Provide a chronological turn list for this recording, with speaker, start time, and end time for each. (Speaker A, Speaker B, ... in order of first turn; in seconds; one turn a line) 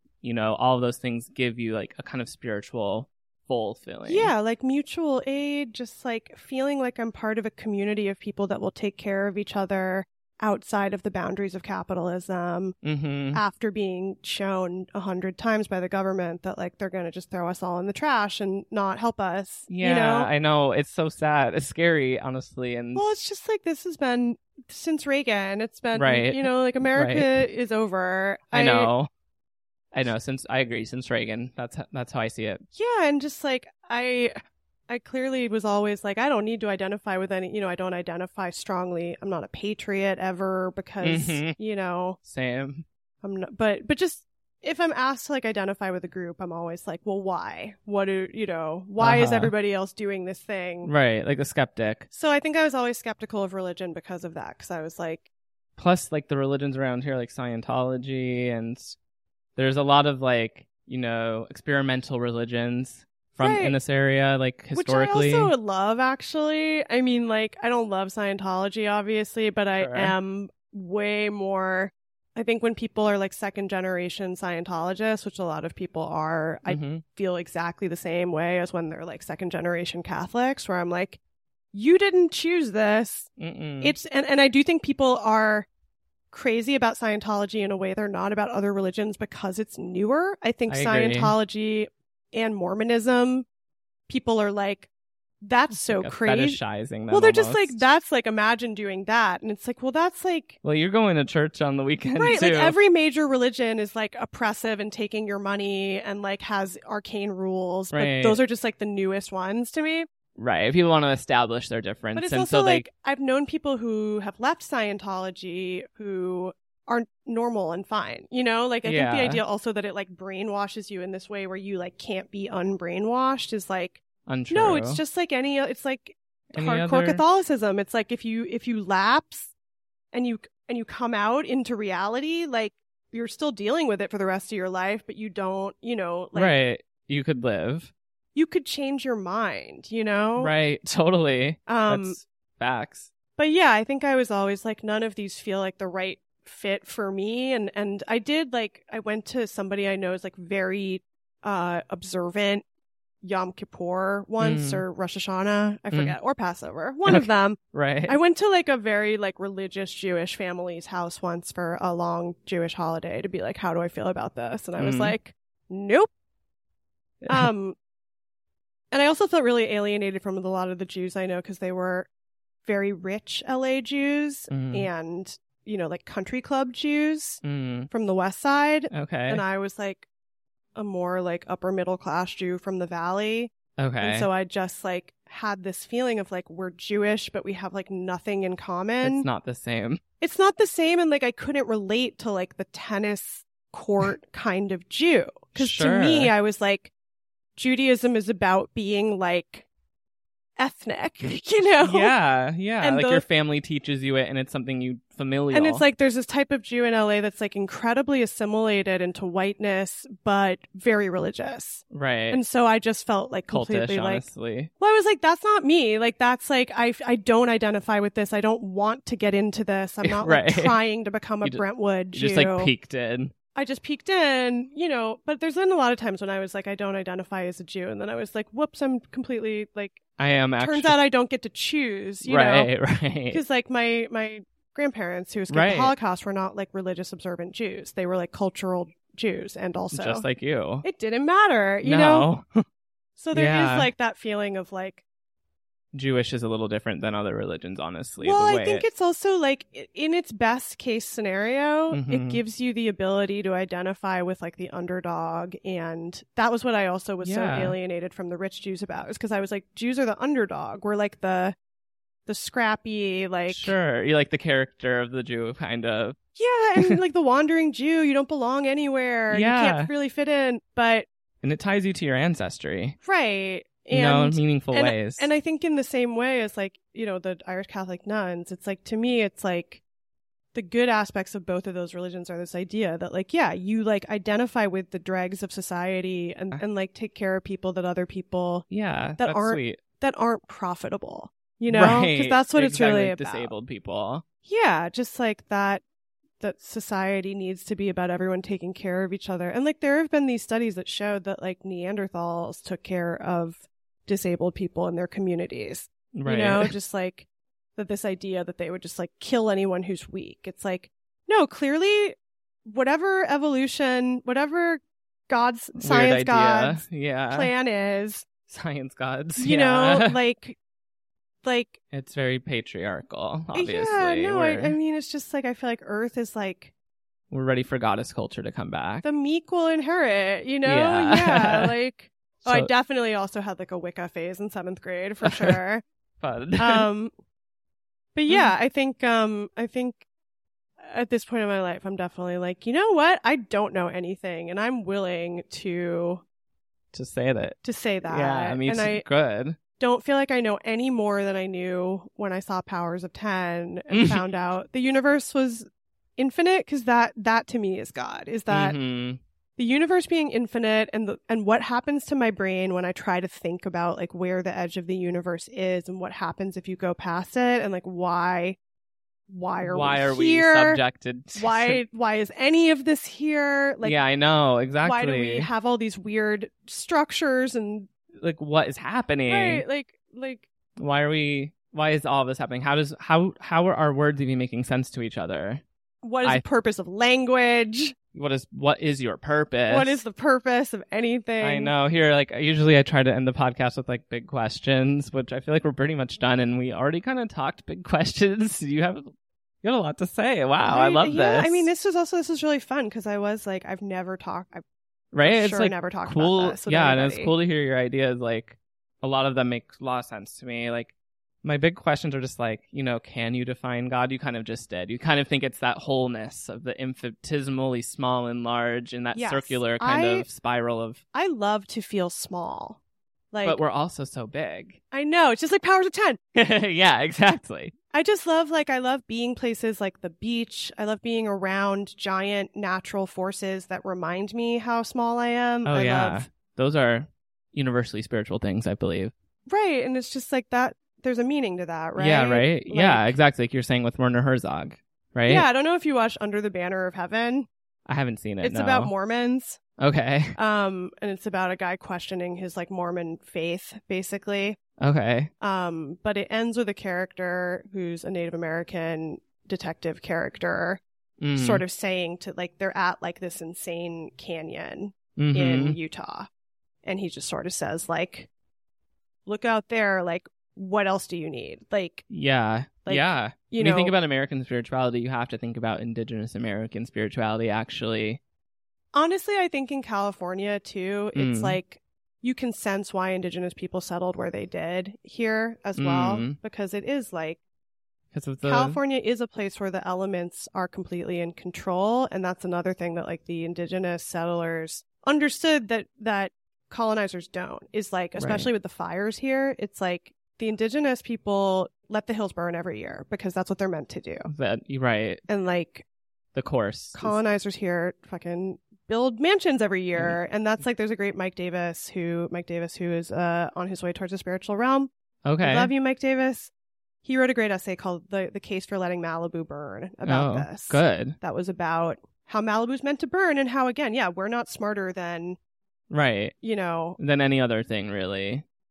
Speaker A: 0.2-4.3
Speaker B: 4.0-12.8
Speaker A: 12.8-13.4
Speaker B: 13.3-20.3
Speaker A: 19.7-23.1
Speaker B: 22.9-28.9
Speaker A: 25.9-27.4
Speaker A: 28.5-29.1
Speaker A: 29.9-32.6
Speaker B: 32.7-34.3
Speaker B: 34.9-42.2
Speaker A: 41.0-41.6
Speaker A: 42.2-42.9
Speaker B: 43.2-50.9
Speaker A: 49.0-49.5
Speaker A: 50.8-52.1
Speaker B: 52.1-55.2
Speaker A: 55.8-59.0
Speaker A: 59.5-65.5
Speaker B: 63.4-63.8
Speaker B: 64.7-81.2
Speaker A: 69.7-70.2
Speaker A: 76.7-77.0
Speaker B: 81.7-85.7
Speaker A: 83.4-84.0
Speaker B: 86.3-93.5
Speaker A: 90.7-91.3
Speaker B: 94.1-94.9
Speaker B: 95.4-100.6
Speaker A: 95.7-97.8
Speaker A: 100.6-102.8
Speaker B: 102.1-110.1
Speaker A: 107.9-108.4
Speaker A: 110.3-112.8
Speaker B: 112.1-129.5
Speaker A: 118.8-119.4
Speaker A: 124.2-125.0
Speaker A: 126.5-127.2
Speaker B: 130.1-136.6
Speaker A: 136.3-137.9
Speaker B: 138.3-140.5
Speaker A: 140.4-143.1
Speaker B: 141.7-142.2
Speaker B: 143.4-152.6
Speaker B: 153.2-166.1
Speaker A: 154.4-154.8
Speaker A: 157.1-158.2
Speaker A: 164.8-165.1
Speaker A: 167.2-167.5
Speaker B: 167.3-167.8
Speaker B: 168.9-172.1
Speaker B: 172.6-180.1
Speaker A: 174.5-174.9
Speaker A: 177.4-177.9
Speaker A: 178.9-179.4
Speaker B: 180.7-189.3
Speaker A: 183.8-184.3
Speaker A: 189.0-190.0
Speaker B: 190.2-196.9
Speaker A: 195.5-196.3
Speaker B: 197.6-199.7
Speaker B: 200.6-202.2
Speaker A: 201.8-205.8
Speaker B: 202.8-203.2
Speaker B: 205.5-214.3
Speaker A: 211.9-212.4
Speaker A: 213.5-214.7
Speaker B: 214.8-222.7
Speaker A: 220.0-220.8
Speaker A: 221.4-223.3
Speaker B: 223.5-230.0
Speaker A: 230.2-230.9
Speaker B: 230.6-232.7
Speaker A: 232.2-233.4
Speaker B: 233.3-240.3
Speaker A: 235.5-235.9
Speaker A: 239.9-240.8
Speaker B: 240.8-242.3
Speaker A: 241.8-242.6
Speaker B: 243.2-245.0
Speaker A: 243.3-243.9
Speaker A: 245.9-248.8
Speaker B: 248.2-261.5
Speaker A: 251.9-252.4
Speaker A: 257.2-257.8
Speaker B: 262.2-263.7
Speaker A: 263.5-266.2
Speaker B: 266.4-271.1
Speaker A: 269.3-269.9
Speaker A: 271.4-273.0
Speaker B: 273.0-279.8
Speaker A: 273.9-275.3
Speaker B: 280.5-293.5
Speaker A: 288.7-289.8
Speaker A: 291.7-294.2
Speaker B: 294.4-295.8
Speaker B: 296.4-318.2
Speaker A: 306.1-306.7
Speaker A: 315.8-317.5
Speaker A: 318.5-320.2
Speaker B: 319.4-320.6
Speaker B: 321.4-321.8
Speaker A: 321.9-324.8
Speaker B: 323.5-326.7
Speaker A: 327.3-329.0
Speaker B: 329.0-335.8
Speaker A: 330.6-331.7
Speaker A: 332.4-332.7
Speaker A: 335.2-335.6
Speaker A: 336.2-336.9
Speaker B: 336.6-337.1
Speaker B: 338.1-340.0
Speaker A: 338.3-338.5
Speaker B: 340.8-346.2
Speaker A: 346.9-349.6
Speaker B: 347.6-349.1
Speaker B: 349.8-358.8
Speaker A: 353.9-354.2
Speaker A: 358.5-359.2
Speaker B: 359.6-368.6
Speaker B: 369.3-370.8
Speaker A: 369.6-371.8
Speaker B: 371.4-374.0
Speaker A: 373.8-375.5
Speaker B: 374.8-377.9
Speaker A: 378.2-379.6
Speaker B: 379.3-380.4
Speaker A: 380.8-385.6
Speaker B: 386.0-387.9
Speaker A: 388.1-390.0
Speaker B: 389.7-391.7
Speaker A: 391.4-399.1
Speaker A: 399.6-401.7
Speaker B: 400.6-404.6
Speaker A: 405.1-421.0
Speaker B: 405.2-407.3
Speaker B: 419.1-420.3
Speaker B: 421.1-422.8
Speaker B: 423.3-423.6
Speaker A: 423.4-424.8
Speaker B: 424.9-426.2
Speaker A: 426.3-427.7
Speaker B: 427.9-436.3
Speaker A: 435.6-439.1
Speaker B: 439.5-443.1
Speaker A: 441.9-445.4
Speaker B: 445.3-447.5
Speaker A: 447.9-448.9
Speaker B: 448.4-449.6
Speaker A: 449.8-450.3
Speaker B: 450.4-454.6
Speaker A: 454.8-455.3
Speaker B: 455.4-460.8
Speaker A: 461.2-461.6
Speaker B: 461.3-466.3
Speaker A: 465.2-465.8
Speaker B: 466.8-468.3
Speaker B: 469.2-472.1
Speaker A: 472.1-478.2
Speaker B: 472.8-473.9
Speaker B: 478.9-487.4
Speaker A: 481.1-481.6
Speaker A: 485.8-486.4
Speaker A: 488.1-488.8
Speaker B: 488.4-504.3
Speaker A: 498.1-498.5
Speaker A: 504.2-505.2
Speaker B: 505.3-505.8
Speaker A: 506.3-507.2
Speaker B: 506.9-516.5
Speaker A: 515.2-515.7
Speaker B: 517.0-525.4
Speaker A: 520.0-521.2
Speaker A: 525.9-526.3
Speaker B: 526.4-527.0
Speaker A: 527.0-528.4